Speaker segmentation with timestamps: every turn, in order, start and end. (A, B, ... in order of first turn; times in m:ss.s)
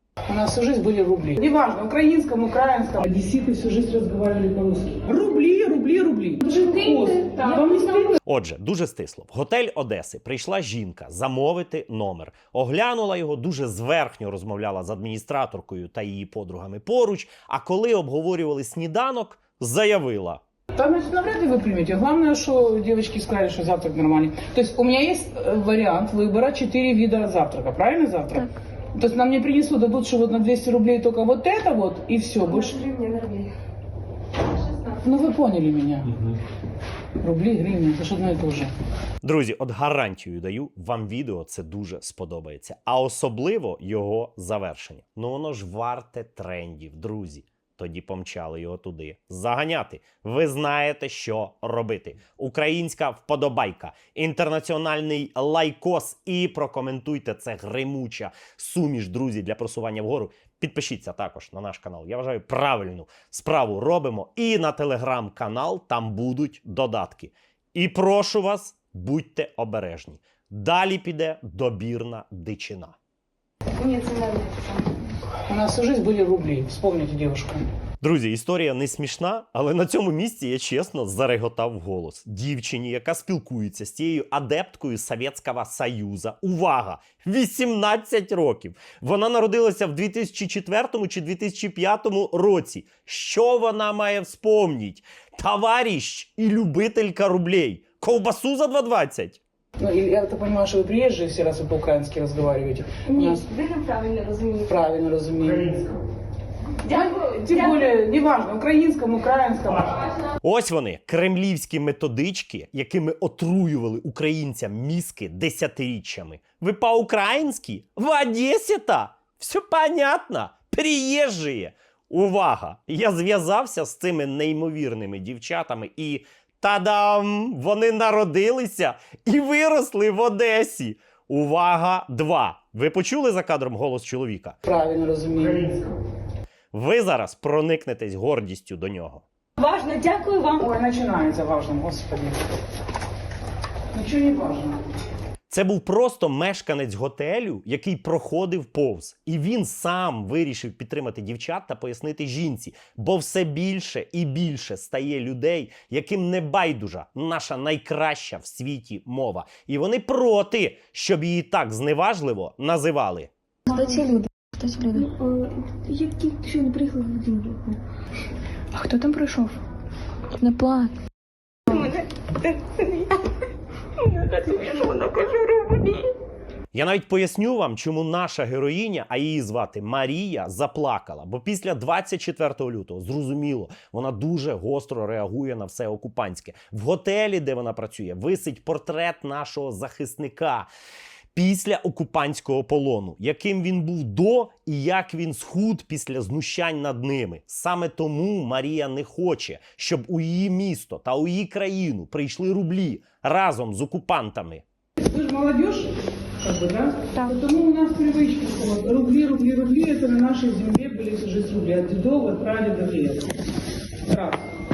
0:00.3-0:08.2 A
0:06.4-0:08.2 B
0:08.2-0:20.4 C
0:20.7-0:32.8 A
0:32.4-0:33.5 B
0:35.0-0:36.2 A
0:37.2-0:38.7 A
0:39.2-1:13.0 C
1:13.8-1:14.9 B
1:15.5-1:17.6 A
1:18.0-1:39.4 C
1:39.8-1:43.4 A
1:43.0-1:44.7 B
1:44.7-1:46.0 A
1:46.8-1:47.9 B
1:46.9-1:50.1 A
1:50.4-2:14.6 C
2:14.6-2:15.9 A
2:16.7-2:19.2 C
2:19.6-2:20.7 B
2:20.6-2:22.4 A
2:23.9-2:24.8 A
2:25.5-2:43.3 C
2:43.7-2:44.1 B
2:43.7-2:45.1 D
2:44.9-2:47.8 B
2:48.8-2:49.5 D
2:50.4-2:50.9 D
2:51.7-2:53.2 B
2:54.0-2:56.0 B
2:56.7-3:10.7 C
3:11.3-3:24.6 C
3:25.0-3:33.3 A
3:34.1-3:34.4 A